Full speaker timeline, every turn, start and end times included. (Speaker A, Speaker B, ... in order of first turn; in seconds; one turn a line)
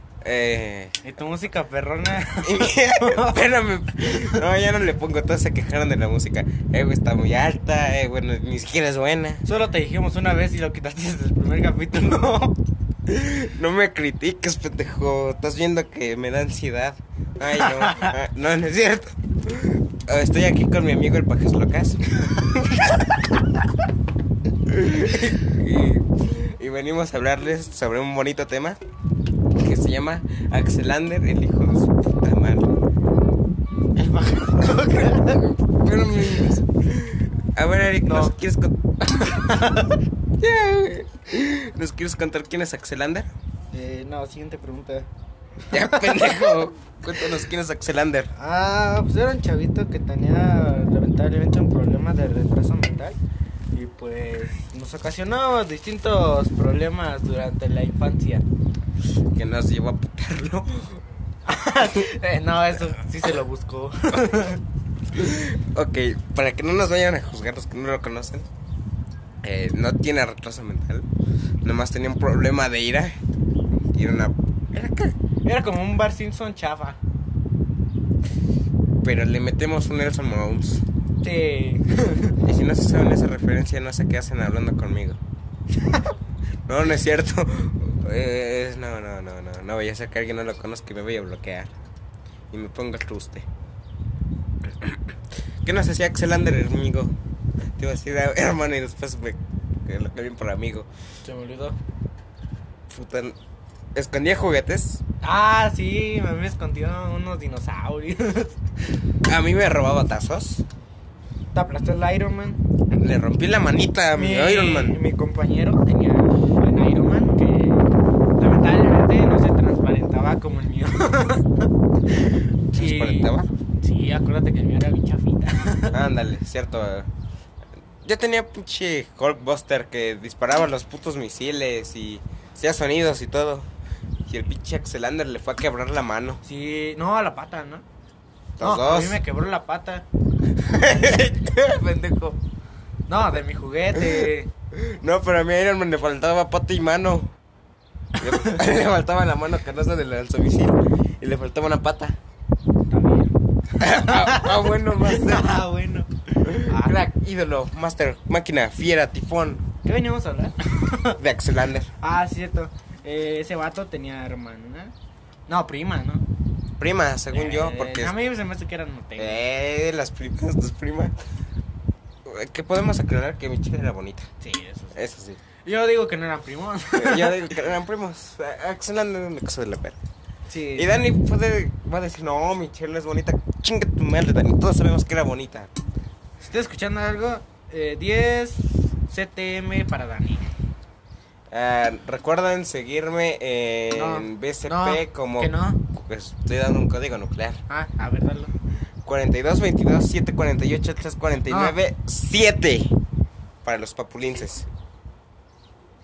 Speaker A: 0.2-1.0
Speaker B: 1.0-3.5
Speaker A: 2.4-9.4
Speaker B: 4.1-4.3
Speaker B: 9.4-12.6
Speaker A: 13.1-23.3
Speaker B: 17.6-18.1
Speaker A: 24.6-28.8
Speaker A: 29.6-32.7
Speaker B: 34.0-35.5
Speaker A: 35.4-39.6
Speaker B: 38.0-38.3
Speaker B: 39.2-40.0
Speaker A: 40.4-43.3
Speaker B: 43.7-45.1
Speaker A: 45.7-48.3
Speaker B: 45.7-46.6
Speaker B: 48.4-53.2
Speaker B: 53.7-58.4
Speaker A: 59.3-61.0
Speaker B: 61.5-64.6
Speaker A: 65.1-68.5
Speaker A: 69.4-71.1
Speaker A: 71.6-73.2
Speaker A: 73.9-75.1
Speaker B: 75.4-77.0
Speaker A: 79.0-80.8
Speaker B: 81.2-82.4
Speaker A: 82.4-85.2
Speaker A: 86.7-91.7
Speaker A: 92.5-93.5
Speaker A: 94.6-95.0
Speaker A: 95.6-97.1
Speaker A: 97.8-100.9
Speaker B: 101.2-101.8
Speaker A: 102.9-103.4
Speaker A: 103.9-105.0
Speaker B: 105.2-109.0
Speaker A: 109.2-110.6
Speaker B: 111.5-112.6
Speaker A: 112.9-115.0
Speaker B: 114.1-126.0
Speaker A: 122.7-123.5
Speaker A: 125.9-127.1
Speaker A: 128.0-133.7
Speaker A: 134.3-136.4
Speaker B: 136.4-137.8
Speaker A: 138.6-139.2
Speaker B: 138.6-140.1
Speaker A: 140.6-142.4
Speaker B: 143.1-144.5
Speaker A: 143.9-147.3
Speaker A: 148.2-152.2
Speaker B: 148.2-148.6
Speaker B: 152.9-157.0
Speaker A: 153.8-155.5
Speaker A: 156.4-159.6
Speaker B: 159.8-161.2
Speaker A: 161.2-161.9
Speaker B: 162.0-164.9
Speaker B: 165.5-166.2
Speaker A: 166.8-168.1
Speaker B: 167.3-169.4
Speaker A: 169.2-171.1
Speaker A: 172.2-174.3
Speaker B: 174.4-174.9
Speaker A: 174.9-175.4
Speaker B: 175.6-177.6
Speaker A: 176.9-180.0
Speaker B: 180.5-180.9
Speaker A: 180.8-185.7
Speaker B: 186.4-190.5
Speaker A: 191.5-197.6
Speaker B: 193.9-195.8
Speaker B: 197.7-198.5
Speaker A: 199.0-202.9
Speaker B: 201.5-201.8
Speaker A: 203.6-204.7